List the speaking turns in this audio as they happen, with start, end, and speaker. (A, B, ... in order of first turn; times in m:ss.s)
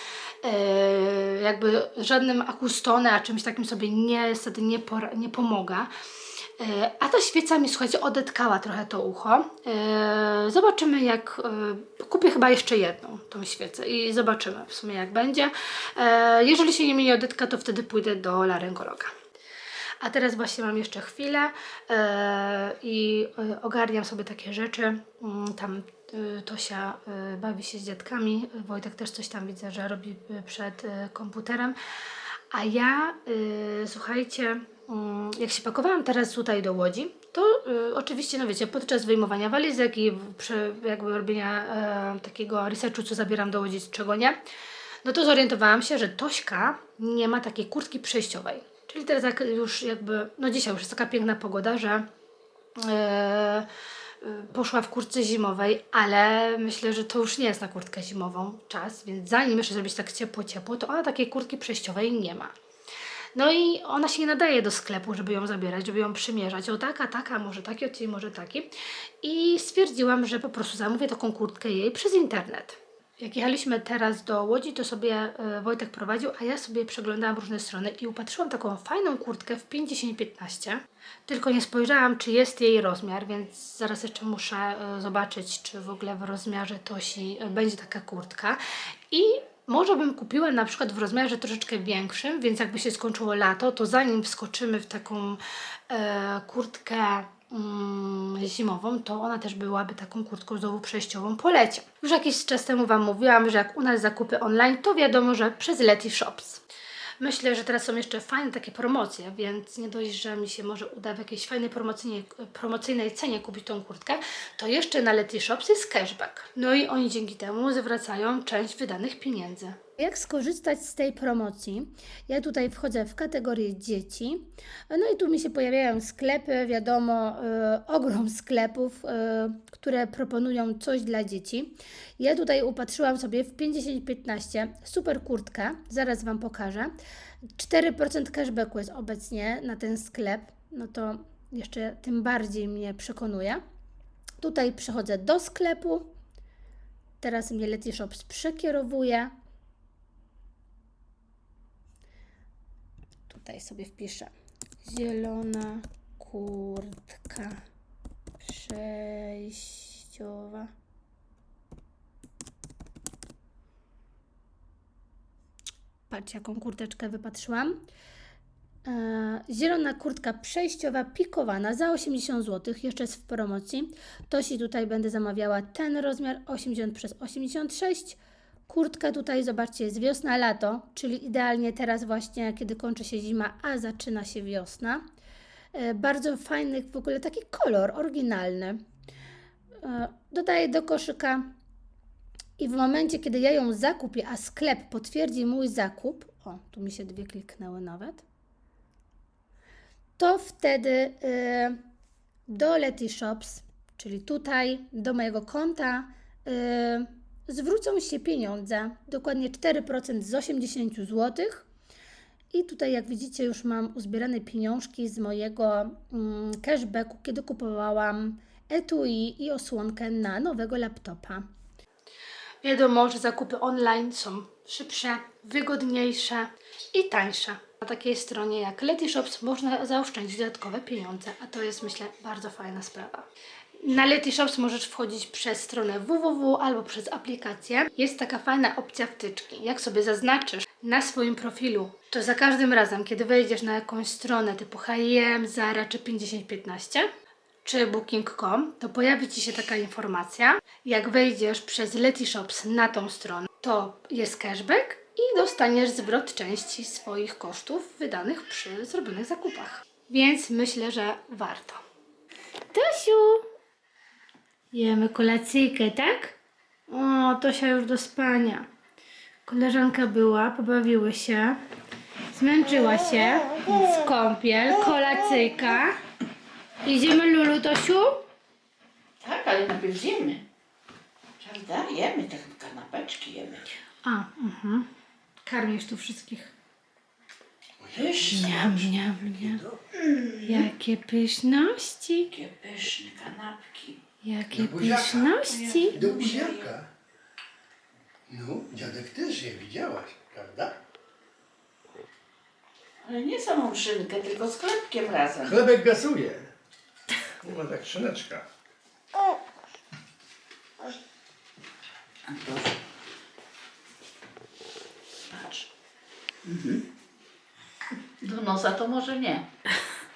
0:00.4-0:05.9 A
0:06.6-0:19.1 A
0:20.0-0:31.8 A
0:32.5-0:44.4 A
0:45.0-0:52.1 A
0:52.8-0:53.7 A
0:54.2-1:02.5 A
1:03.4-1:08.7 A
1:09.2-1:46.6 A
1:47.2-2:16.9 A
2:17.6-2:23.6 A
2:24.4-2:26.1 A
2:27.2-2:29.3 A
2:33.3-2:34.3 A
2:34.8-2:37.6 A
2:38.4-2:40.7 A
2:46.1-2:47.9 A
2:48.9-3:05.0 A
3:05.7-3:08.8 A
3:09.8-3:11.5 A
3:12.6-3:18.2 A
3:20.2-3:21.8 A
3:22.5-3:31.7 A
3:32.5-3:41.5 A
3:42.6-3:53.3 A
3:53.8-4:07.1 A
4:07.6-4:21.8 A
4:22.7-4:23.5 A
4:24.7-4:26.4 A
4:26.9-4:28.7 A
4:29.5-4:31.6 A
4:32.3-4:36.0 A
4:36.8-4:38.2 A
4:39.2-4:40.4 B
4:41.4-4:43.7 B
4:44.0-4:44.9 A
4:45.4-4:46.5 A
4:47.8-4:48.7 C
4:47.9-4:48.9 B
4:48.2-4:49.6 A
4:49.2-4:49.8 C
4:50.0-4:50.6 B
4:50.4-4:52.3 A
4:52.3-4:54.0 B
4:54.2-4:56.0 A
4:54.5-4:55.3 C
4:55.5-4:56.7 B
4:55.9-4:56.9 C
4:58.3-5:00.8 C
5:03.0-5:05.6 B
5:05.4-5:06.5 C
5:07.4-5:08.5 C
5:12.3-5:12.8 B
5:15.3-5:15.7 B
5:16.4-5:16.9 B
5:18.2-5:19.5 B